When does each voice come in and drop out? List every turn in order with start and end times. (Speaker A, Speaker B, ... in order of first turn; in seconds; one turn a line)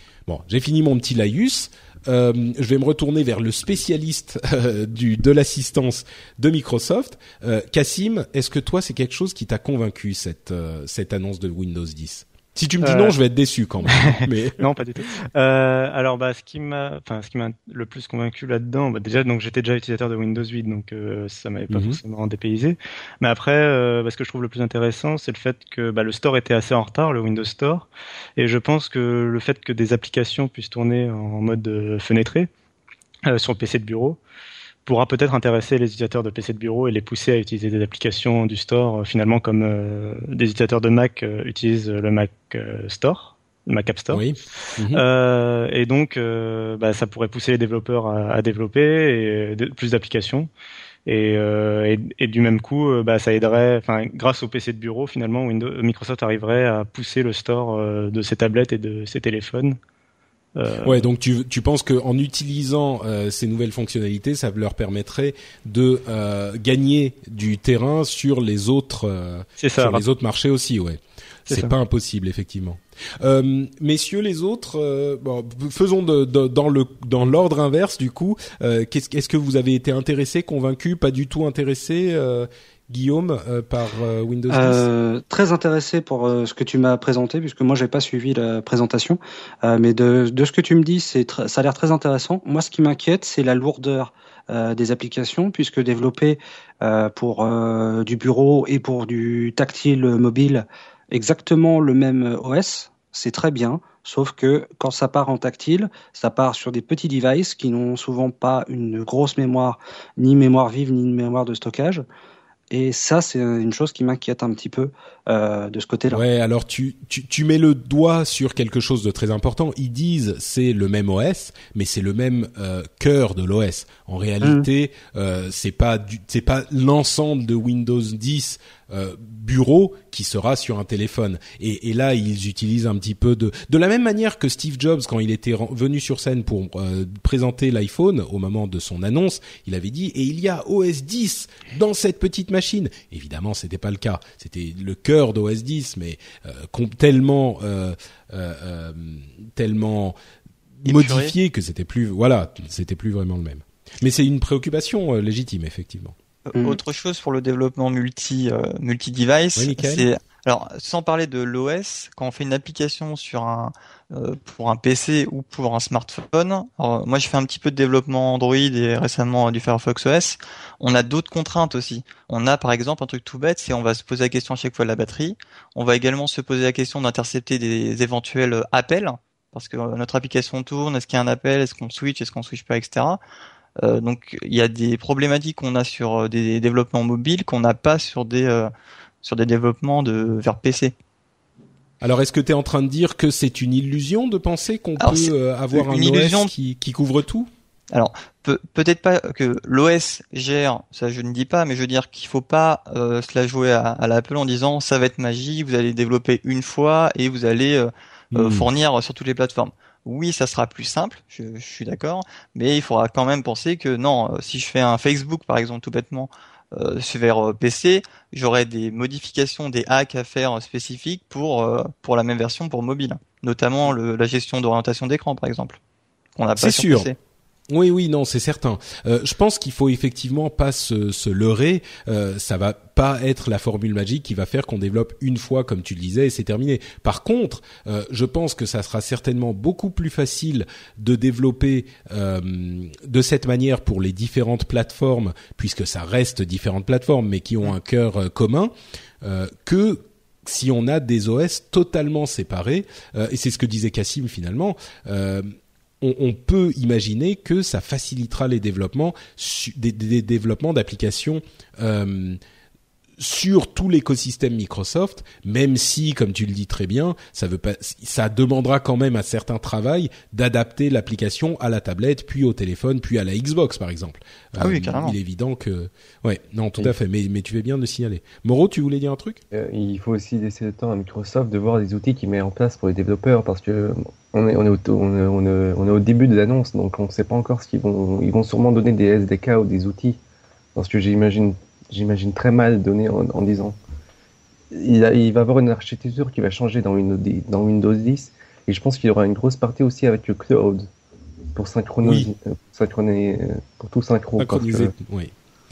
Speaker A: 0.3-14.7
Speaker B: 12.8-13.2
Speaker B: 13.9-32.5
Speaker A: 21.7-22.0
Speaker B: 33.3-34.2
Speaker B: 34.9-44.2
Speaker A: 44.1-45.0
Speaker B: 44.9-50.5
Speaker B: 51.1-59.8
Speaker B: 60.6-61.1
Speaker A: 60.8-84.9
Speaker B: 69.6-70.0
Speaker B: 71.5-71.7
Speaker C: 84.5-112.0
Speaker C: 112.7-116.2
Speaker A: 116.1-150.2
Speaker A: 150.8-156.2
Speaker D: 150.8-151.3
Speaker D: 156.5-183.2
Speaker A: 159.6-160.1
Speaker D: 183.8-188.7
Speaker D: 189.2-190.9
Speaker A: 192.0-197.5
Speaker D: 195.0-196.5
Speaker D: 197.9-225.8
Speaker A: 208.3-208.7
Speaker D: 226.4-227.2
Speaker A: 226.6-227.1
Speaker A: 227.7-262.4
Speaker A: 263.2-279.4
Speaker D: 274.6-275.2
Speaker E: 279.5-290.2
Speaker E: 290.8-293.8
Speaker E: 294.7-300.9
Speaker E: 301.6-304.9
Speaker A: 302.0-302.3
Speaker A: 304.4-305.3